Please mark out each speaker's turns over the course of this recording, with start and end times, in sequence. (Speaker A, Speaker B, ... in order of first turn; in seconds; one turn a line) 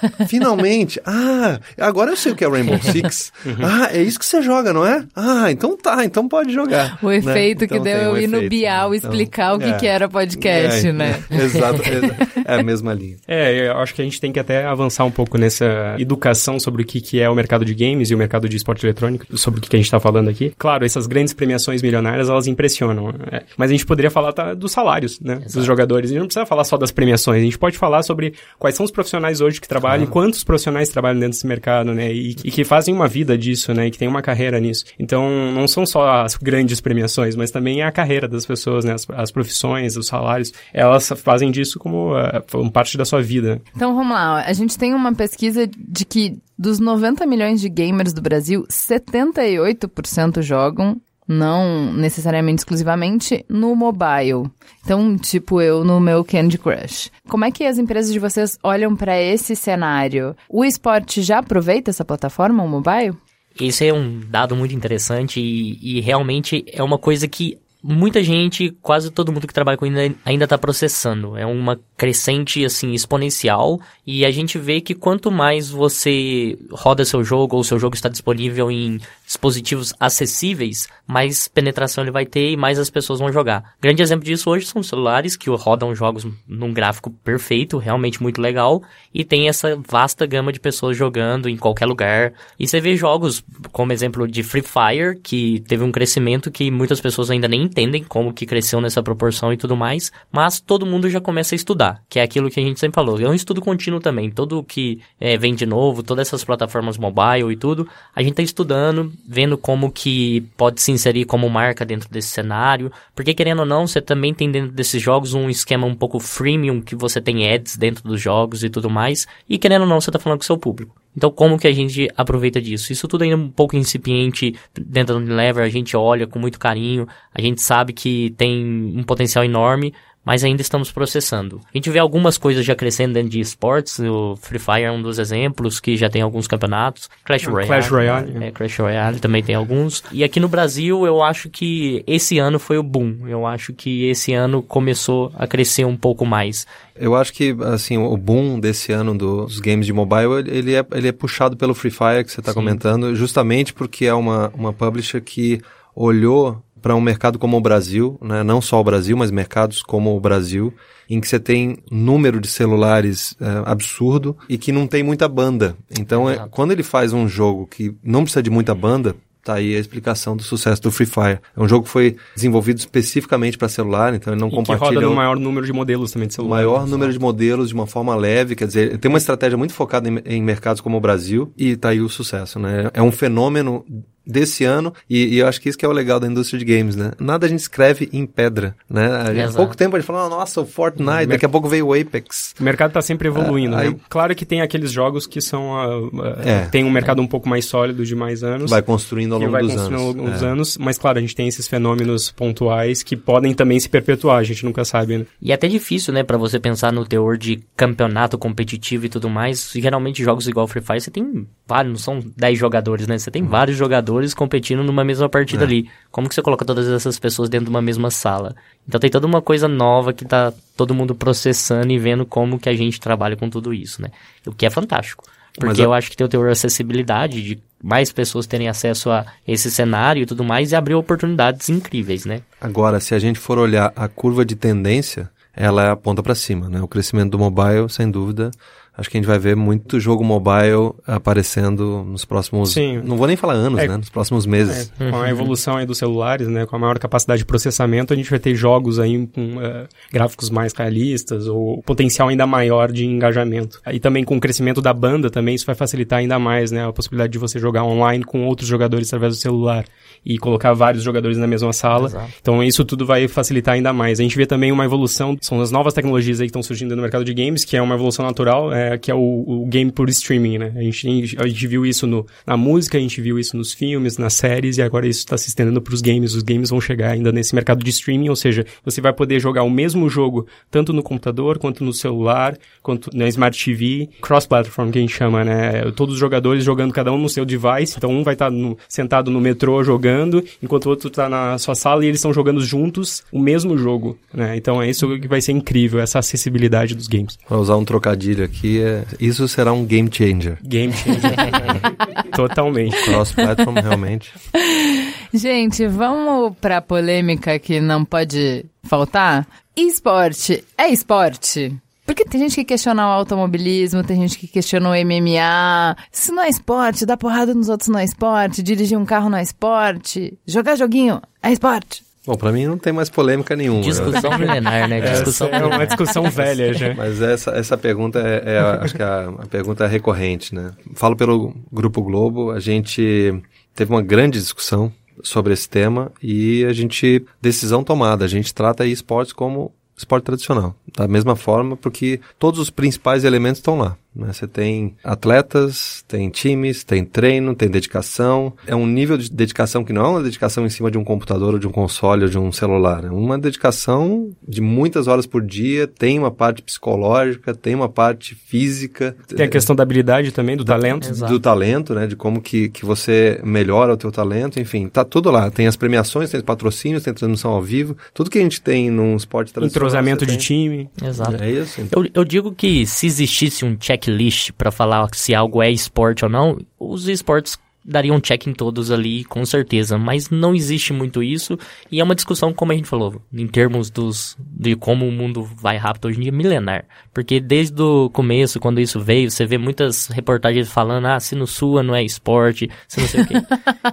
Speaker A: 0.2-13.2
Speaker B: 7.0-11.9
Speaker C: 13.3-43.6
Speaker D: 25.4-25.7
Speaker A: 29.8-30.1
Speaker B: 43.8-63.2
Speaker D: 63.6-146.7
Speaker C: 137.4-138.5
Speaker A: 147.0-175.2
Speaker D: 152.5-152.8
Speaker D: 166.1-166.4
Speaker C: 174.5-177.1
Speaker A: 176.4-192.6
Speaker D: 189.3-189.8
Speaker C: 191.1-191.4
Speaker C: 192.6-198.8
Speaker A: 193.3-194.0
Speaker A: 196.4-196.7
Speaker A: 198.6-200.5
Speaker C: 199.4-205.3
Speaker D: 205.4-232.4
Speaker A: 225.6-225.9
Speaker A: 232.6-244.9
Speaker C: 242.6-243.1
Speaker C: 244.6-297.4
Speaker D: 245.0-245.5
Speaker D: 261.9-262.3
Speaker A: 297.5-300.6
Speaker C: 300.6-303.2
Speaker A: 301.2-301.7
Speaker A: 302.9-304.3
Speaker B: 304.6-322.0
Speaker A: 322.2-359.7
Speaker D: 323.8-326.4
Speaker C: 325.0-327.0
Speaker C: 359.4-361.1
Speaker A: 360.7-370.5
Speaker D: 361.0-361.4
Speaker C: 369.6-370.9
Speaker D: 371.0-393.5
Speaker A: 371.2-371.9